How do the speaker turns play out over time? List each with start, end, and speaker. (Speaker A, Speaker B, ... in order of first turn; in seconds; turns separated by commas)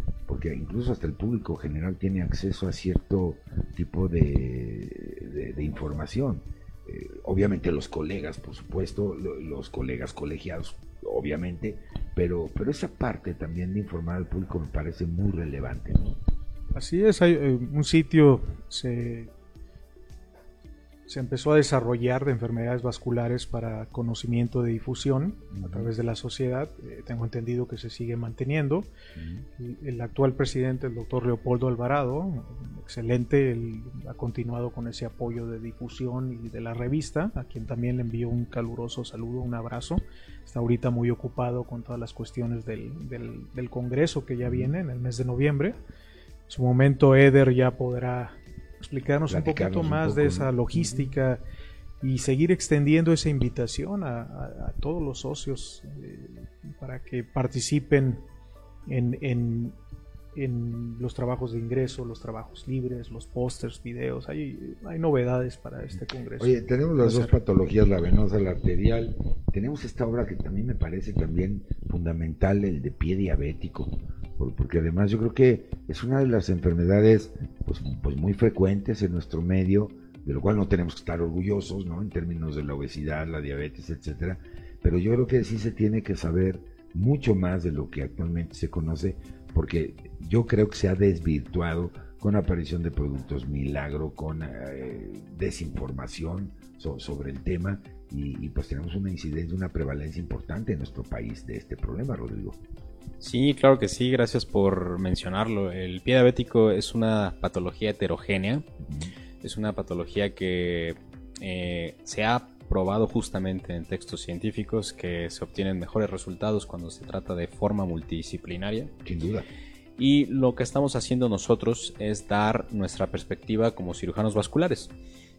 Speaker A: 0.3-16.2, Speaker B: 16.7-19.3, Speaker B: 21.1-28.9, Speaker A: 25.5-25.9, Speaker A: 29.2-29.4, Speaker B: 29.6-45.8, Speaker A: 44.5-44.7, Speaker B: 46.5-51.4, Speaker A: 49.3-51.1, Speaker B: 52.0-58.2, Speaker B: 58.9-59.8, Speaker B: 60.3-67.3, Speaker A: 66.4-102.6, Speaker C: 103.2-108.6, Speaker A: 108.8-109.1, Speaker C: 109.4-118.9, Speaker A: 119.0-119.5, Speaker C: 120.0-124.9